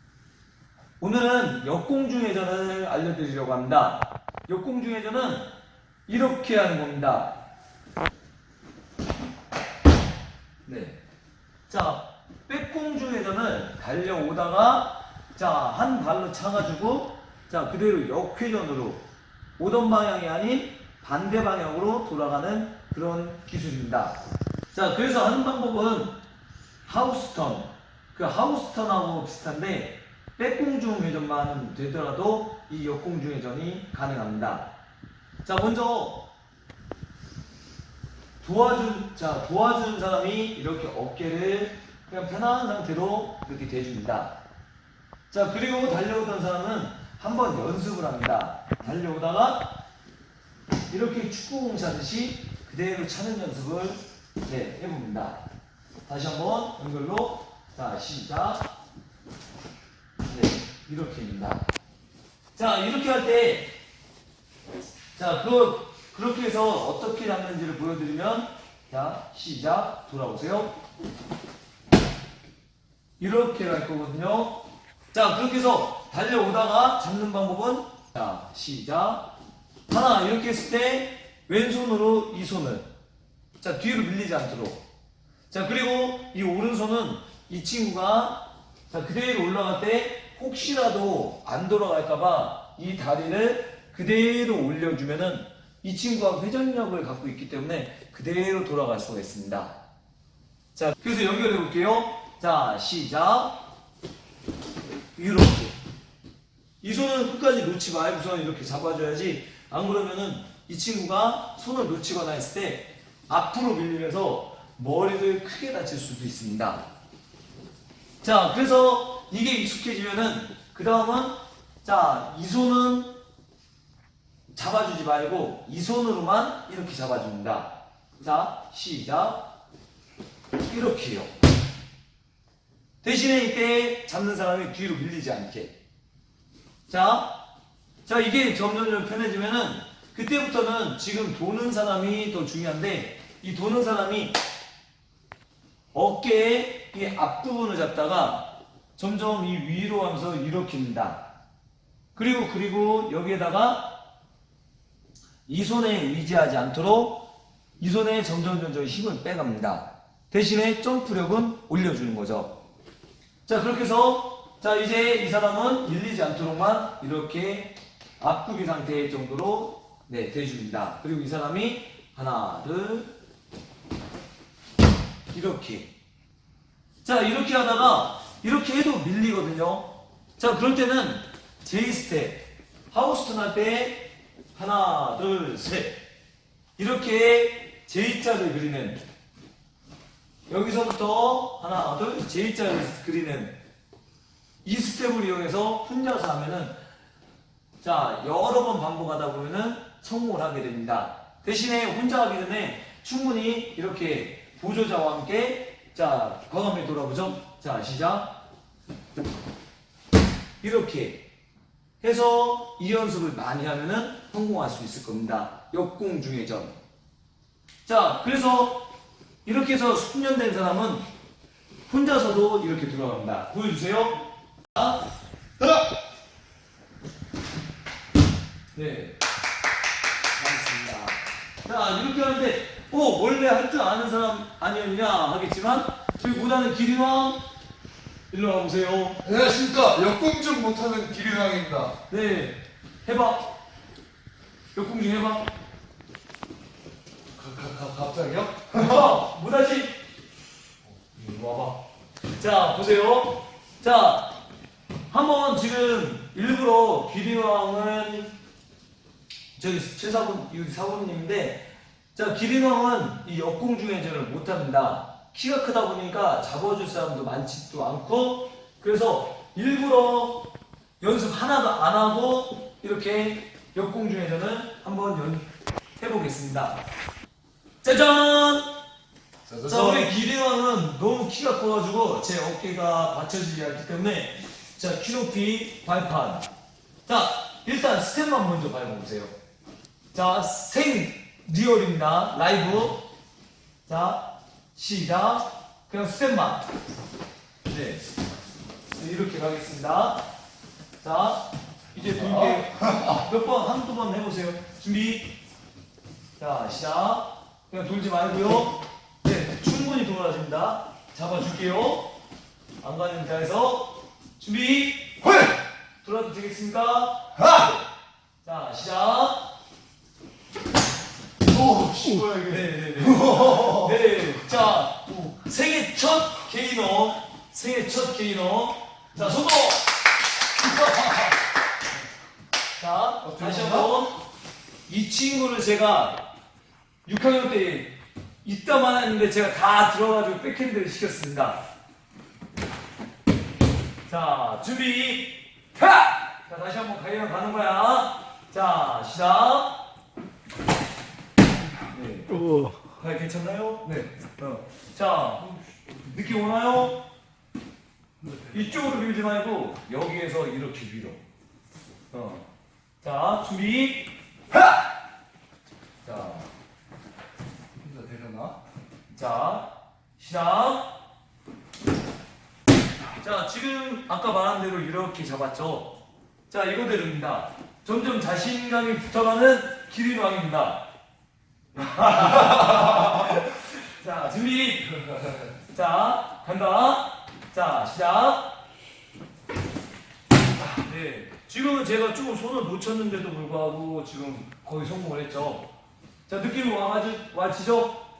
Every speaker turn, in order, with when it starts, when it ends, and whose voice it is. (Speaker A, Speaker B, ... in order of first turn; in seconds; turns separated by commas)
Speaker A: 1.0-5.5, Speaker A: 6.1-7.4, Speaker A: 10.7-11.0, Speaker A: 11.7-19.0, Speaker A: 19.6-24.2, Speaker A: 24.7-26.2, Speaker A: 26.9-34.7, Speaker A: 35.4-36.2, Speaker A: 38.4-44.3, Speaker A: 45.3-49.7, Speaker A: 50.9-55.4, Speaker A: 56.1-58.6, Speaker A: 60.2-61.6, Speaker A: 62.5-63.7, Speaker A: 65.2-70.8, Speaker A: 73.2-79.3, Speaker A: 79.9-82.9, Speaker A: 83.6-84.8, Speaker A: 85.5-99.7, Speaker A: 100.8-103.6, Speaker A: 105.1-105.8, Speaker A: 106.8-116.8, Speaker A: 118.2-123.2, Speaker A: 124.5-129.4, Speaker A: 130.7-131.3, Speaker A: 133.0-135.7, Speaker A: 136.9-137.4, Speaker A: 138.1-144.4, Speaker A: 145.9-151.2, Speaker A: 152.2-153.9, Speaker A: 155.5-157.2, Speaker A: 157.8-162.5, Speaker A: 163.5-173.1, Speaker A: 175.3-175.9, Speaker A: 177.0-186.0, Speaker A: 186.8-189.0, Speaker A: 190.5-193.6, Speaker A: 194.6-196.8, Speaker A: 197.8-208.3, Speaker A: 210.6-211.2, Speaker A: 212.0-216.8, Speaker A: 217.9-218.8, Speaker A: 219.4-221.1, Speaker A: 221.9-224.2, Speaker A: 224.8-225.0, Speaker A: 225.6-225.8, Speaker A: 228.8-229.2, Speaker A: 230.3-237.4, Speaker A: 238.3-239.2, Speaker B: 239.2-241.9, Speaker A: 242.1-243.5, Speaker A: 244.8-245.5, Speaker B: 247.4-249.1, Speaker A: 248.7-250.0, Speaker A: 251.1-251.8, Speaker A: 252.4-254.3, Speaker A: 255.1-258.3, Speaker A: 259.6-270.5, Speaker A: 271.0-275.5, Speaker A: 276.0-276.8, Speaker A: 277.8-278.7, Speaker B: 279.5-280.1, Speaker A: 279.7-286.5, Speaker A: 287.1-289.3, Speaker A: 290.1-293.0, Speaker A: 293.9-296.7, Speaker A: 297.7-298.1, Speaker A: 299.0-300.2, Speaker A: 301.0-305.3, Speaker A: 306.4-312.1, Speaker A: 312.8-315.2, Speaker A: 316.0-317.7, Speaker A: 318.4-319.5, Speaker B: 321.5-323.9, Speaker A: 322.5-329.9, Speaker A: 330.6-331.3, Speaker A: 332.8-334.2, Speaker B: 333.2-333.9, Speaker A: 334.9-336.2, Speaker A: 337.1-341.6, Speaker A: 344.1-349.8, Speaker A: 351.9-352.4, Speaker A: 353.0-355.5, Speaker B: 353.8-354.1, Speaker A: 356.0-357.0, Speaker B: 358.2-358.8, Speaker A: 358.5-361.2, Speaker A: 362.1-362.5, Speaker A: 363.0-364.1, Speaker A: 366.0-366.5, Speaker B: 367.8-368.6, Speaker A: 369.1-370.9, Speaker A: 373.2-375.9, Speaker A: 376.5-380.9, Speaker A: 381.8-384.9, Speaker A: 385.7-388.5, Speaker A: 390.8-395.7, Speaker A: 396.3-398.0